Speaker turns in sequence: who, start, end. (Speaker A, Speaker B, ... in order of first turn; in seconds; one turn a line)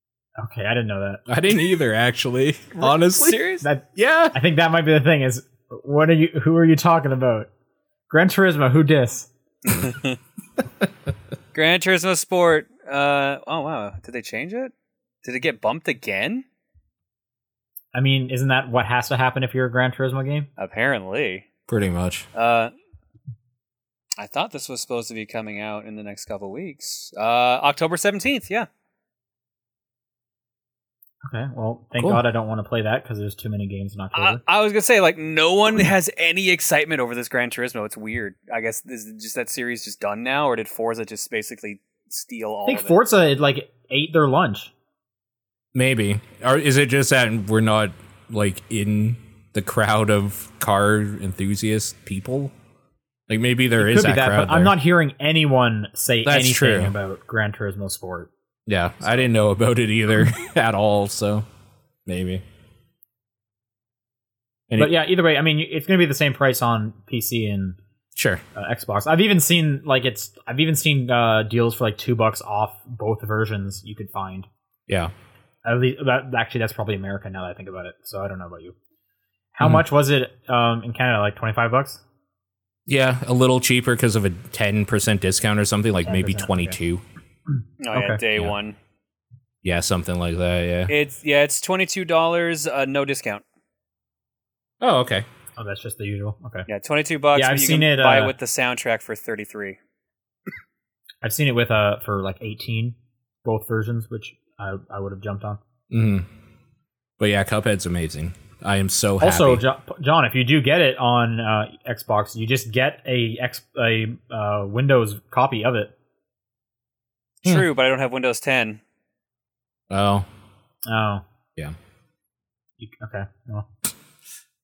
Speaker A: 0.4-1.2
Speaker B: 1.3-3.4
Speaker C: 2.8-3.6
Speaker A: 3.6-7.5
Speaker B: 4.0-4.3
Speaker A: 8.1-9.3
Speaker C: 9.6-10.2
Speaker C: 11.5-14.7
Speaker C: 15.2-16.4
Speaker A: 17.9-20.5
Speaker C: 20.6-21.5
Speaker B: 21.7-22.2
Speaker C: 22.3-22.7
Speaker C: 24.2-28.7
Speaker A: 31.2-34.4
Speaker C: 34.1-43.0
Speaker A: 42.6-44.7
Speaker B: 45.7-52.5
Speaker B: 53.3-54.7
Speaker A: 53.8-58.3
Speaker B: 56.2-56.9
Speaker B: 58.7-61.5
Speaker B: 62.0-62.4
Speaker A: 64.8-67.8
Speaker B: 68.1-68.4
Speaker A: 68.5-74.5
Speaker B: 74.9-75.1
Speaker A: 75.6-78.7
Speaker A: 79.5-82.0
Speaker B: 82.9-87.0
Speaker A: 86.0-86.8
Speaker C: 87.8-88.8
Speaker A: 87.9-88.2
Speaker B: 89.6-90.9
Speaker C: 90.9-93.4
Speaker B: 94.8-95.2
Speaker A: 95.5-96.7
Speaker C: 96.7-99.8
Speaker A: 97.3-98.3
Speaker A: 101.2-105.6
Speaker B: 105.9-106.2
Speaker B: 107.2-109.6
Speaker A: 109.2-115.9
Speaker C: 117.4-118.8
Speaker B: 119.9-120.2
Speaker A: 120.9-121.2
Speaker A: 122.8-123.7